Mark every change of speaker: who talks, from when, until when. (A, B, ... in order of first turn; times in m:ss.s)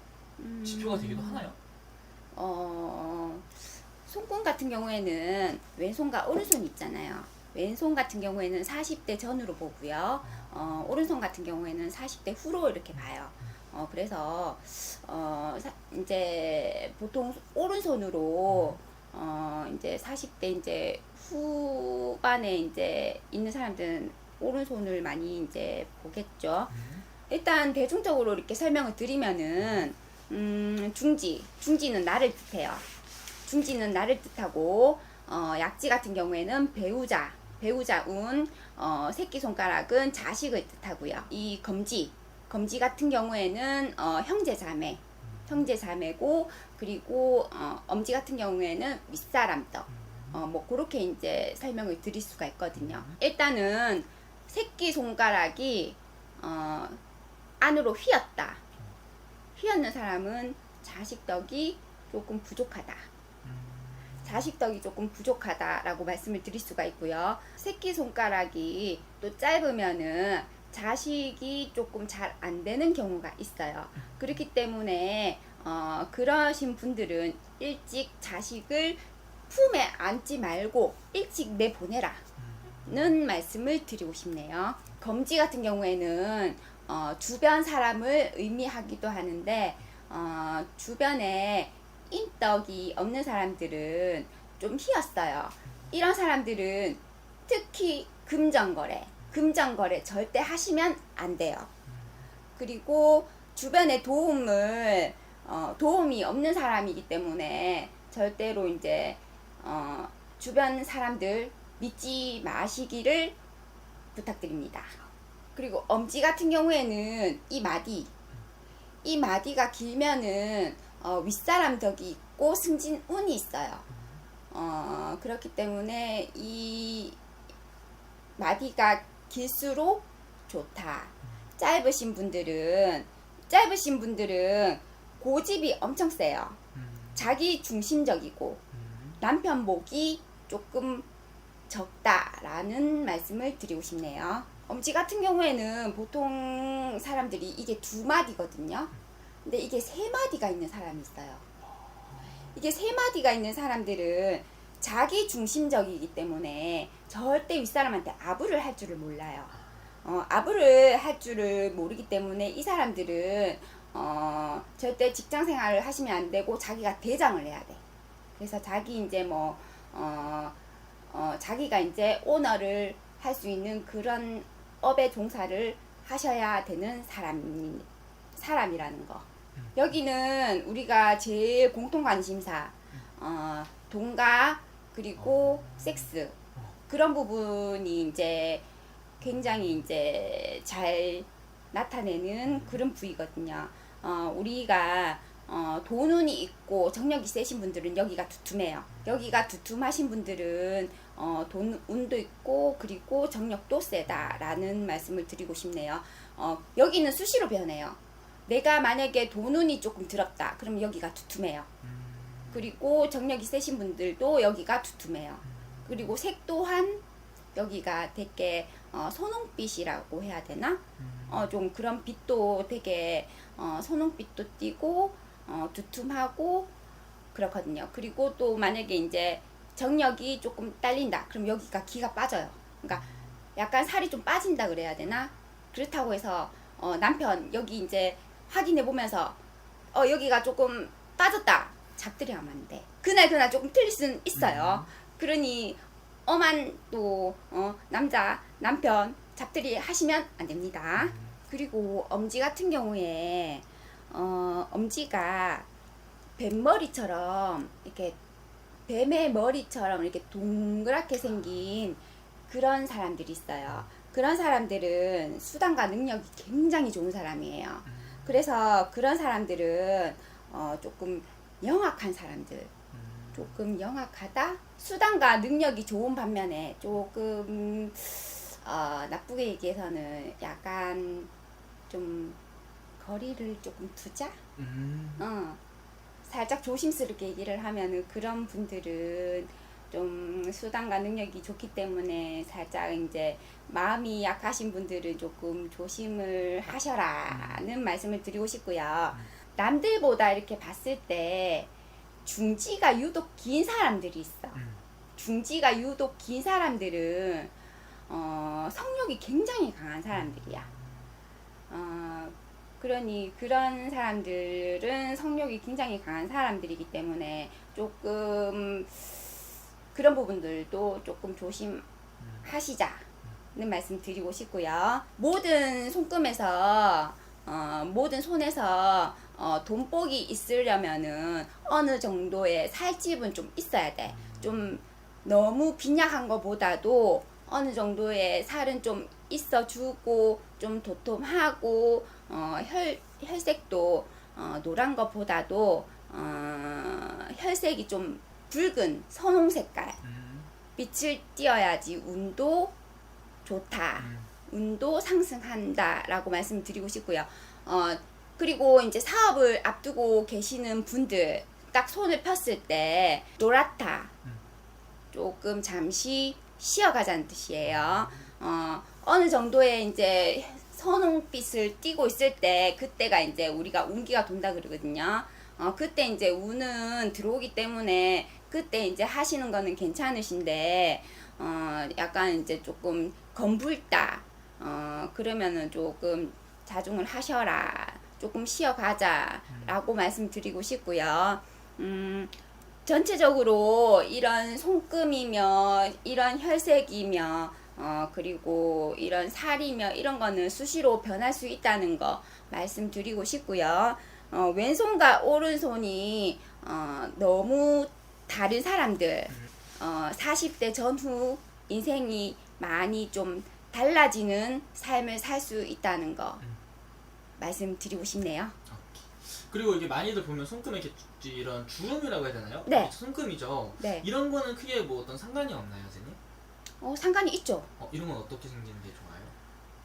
0:00.4-0:01.5 A
0:00.6-0:01.6 B
0:02.3-0:26.8 A
0:10.2-0:10.9 B
0:18.5-0:18.8 B
0:26.7-0:27.0 B
0:27.3-0:32.9 A
0:29.6-0:29.8 B
0:33.5-0:57.0 A
0:45.2-0:45.6 B
0:49.9-0:50.4 B
0:52.8-0:53.2 B
0:57.6-0:58.6 A
0:59.6-1:03.1 A
1:03.4-1:04.5 B
1:04.2-1:22.2 A
1:14.0-1:14.4 B
1:22.4-1:23.2 B
1:22.9-1:41.7 A
1:41.9-1:42.2 B
1:42.6-1:53.4 A
1:54.2-1:55.0 A
1:55.6-1:58.1 A
1:59.0-2:03.8 A
2:04.5-2:07.2 A
2:08.4-2:16.6 A
2:16.7-2:17.3 B
2:17.2-2:18.6 A
2:18.7-2:19.2 B
2:19.2-2:21.1 A
2:21.7-2:28.9 A
2:29.4-2:31.4 A
2:32.1-2:32.5 B
2:32.5-2:47.8 A
2:48.4-2:50.6 A
2:51.1-3:06.4 A
3:05.2-3:06.8 B
3:06.9-3:08.6 A
3:09.2-3:31.7 A
3:09.4-3:09.8 B
3:12.4-3:12.8 B
3:18.9-3:19.4 B
3:24.1-3:24.7 B
3:31.8-3:32.7 B
3:32.5-3:37.0 A
3:35.4-3:36.1 B
3:37.6-3:46.7 A
3:41.0-3:41.5 B
3:47.3-3:59.4 A
3:52.9-3:53.3 B
3:59.9-4:15.7 A
4:04.4-4:04.9 B
4:11.0-4:11.4 B
4:16.4-4:18.2 A
4:18.9-4:32.7 A
4:27.8-4:28.4 B
4:32.9-4:33.6 B
4:33.3-4:41.3 A
4:41.9-4:42.4 A
4:43.0-4:44.4 A
4:44.6-4:45.3 B
4:45.2-4:45.6 A
4:46.2-5:01.7 A
4:57.3-4:57.6 B
5:02.2-5:04.6 A
5:04.5-5:04.8 B
5:05.2-5:07.5 A
5:08.1-5:10.7 A
5:10.1-5:11.1 B
5:11.7-5:19.4 A
5:19.9-5:21.8 A
5:22.2-5:22.5 B
5:22.4-5:50.0 A
5:34.1-5:34.8 B
5:50.0-5:50.5 B
5:50.8-5:52.7 A
5:53.4-6:04.1 A
5:54.0-5:54.3 B
6:05.1-6:56.4 A
6:07.6-6:08.3 B
6:29.5-6:29.8 B
6:57.4-6:58.6 A
6:58.7-7:06.2 B
7:02.7-7:02.9 A
7:03.8-7:04.1 A
7:06.8-7:07.7 A
7:07.8-7:09.4 B